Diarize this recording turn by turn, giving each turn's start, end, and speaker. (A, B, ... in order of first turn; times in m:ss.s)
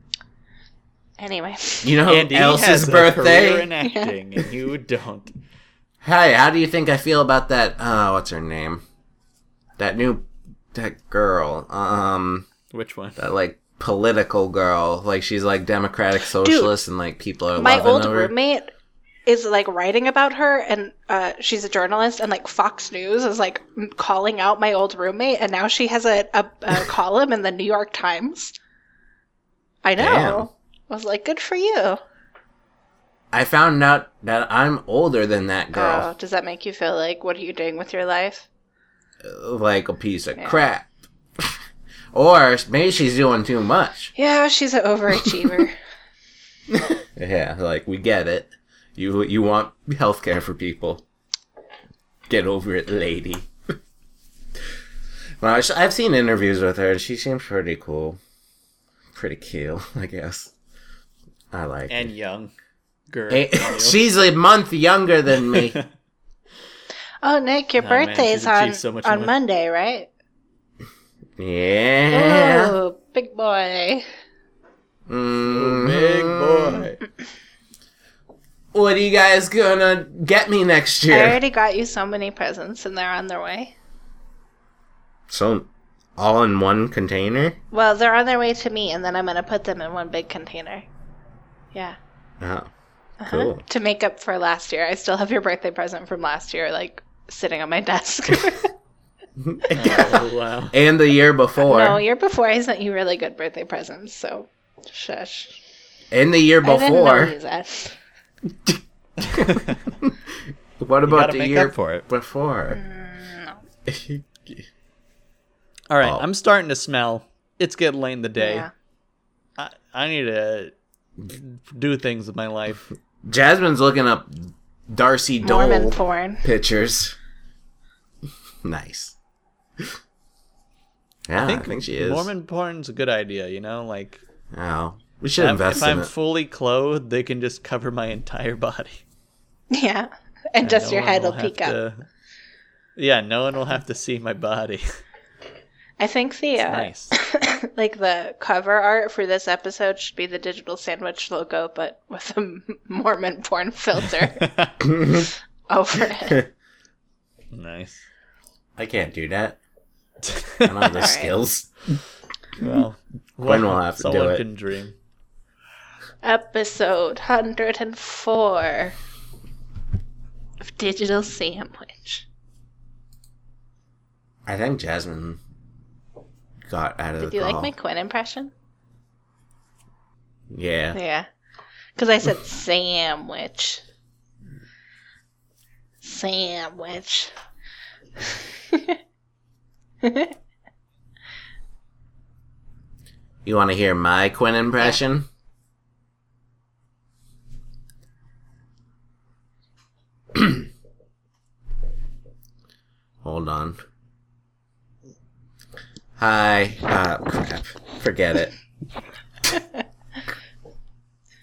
0:01.2-0:02.0 A
0:01.8-0:03.7 B
0:02.0-0:05.3 C
0:03.8-0:04.2 A
0:06.0-0:08.8 B
0:09.8-0:12.5 B
0:12.7-0:13.2 C
0:13.2-0:18.3 B
0:16.3-0:16.7 A
0:17.6-0:18.7 A
0:19.3-0:28.5 A
0:29.8-0:32.0 A
0:30.0-0:30.5 B
0:33.3-0:36.1 B
0:35.7-0:38.5 A
0:39.2-0:41.6 B
0:42.1-0:44.1 B
0:44.1-0:45.7 A
0:46.7-0:51.0 B
0:52.3-0:53.5 B
0:55.4-0:58.2 B
0:59.1-1:00.5 B
1:01.5-1:02.1 B
1:01.9-1:02.5 C
1:03.1-1:04.1 C
1:03.3-1:05.8 B
1:05.5-1:05.9 C
1:07.2-1:10.1 A
1:07.8-1:09.3 C
1:11.4-1:12.8 B
1:12.1-1:14.0 A
1:15.1-1:16.9 B
1:15.4-1:17.0 C
1:18.7-1:21.4 B
1:21.1-1:23.7 A
1:25.3-1:27.6 B
1:27.7-1:30.8 A
1:32.4-1:32.7 B
1:33.2-1:38.7 A
1:33.3-1:33.6 B
1:39.4-1:40.2 B
1:39.7-1:40.7 C
1:40.7-1:42.0 B
1:41.6-1:45.6 A
1:46.1-1:47.3 B
1:46.6-1:48.0 A
1:48.6-1:50.2 B
1:49.2-1:49.8 C
1:50.8-1:52.8 B
1:51.0-1:52.0 C
1:52.7-1:53.6 A
1:53.9-1:54.6 B
1:55.9-1:58.7 C
1:58.4-1:58.7 A
1:59.6-2:00.7 C
2:01.3-2:02.9 C
2:03.2-2:07.2 B
2:05.4-2:06.4 A
2:08.6-2:09.2 B
2:11.3-2:12.3 B
2:11.4-2:14.2 C
2:14.5-2:16.1 B
2:15.4-2:19.0 C
2:19.7-2:21.8 A
2:20.6-2:22.0 C
2:23.0-2:24.8 C
2:26.0-2:34.4 A
2:26.6-2:27.1 C
2:34.4-2:34.7 C
2:34.8-2:35.3 B
2:35.0-2:36.4 A
2:37.5-2:38.0 C
2:38.8-2:39.6 B
2:40.2-2:41.0 C
2:40.6-2:41.7 B
2:40.9-2:41.4 A
2:42.6-2:44.9 C
2:43.4-2:44.4 B
2:46.2-2:48.9 A
2:50.6-2:52.2 A
2:54.4-2:55.4 B
2:56.6-2:57.7 B
2:57.2-2:58.5 A
3:00.5-3:01.0 B
3:00.9-3:01.3 A
3:02.0-3:03.8 A
3:06.0-3:07.3 A
3:08.7-3:09.0 A
3:10.0-3:10.3 A
3:13.4-3:15.2 B
3:20.3-3:20.6 B
3:23.2-3:23.8 B
3:26.2-3:28.5 B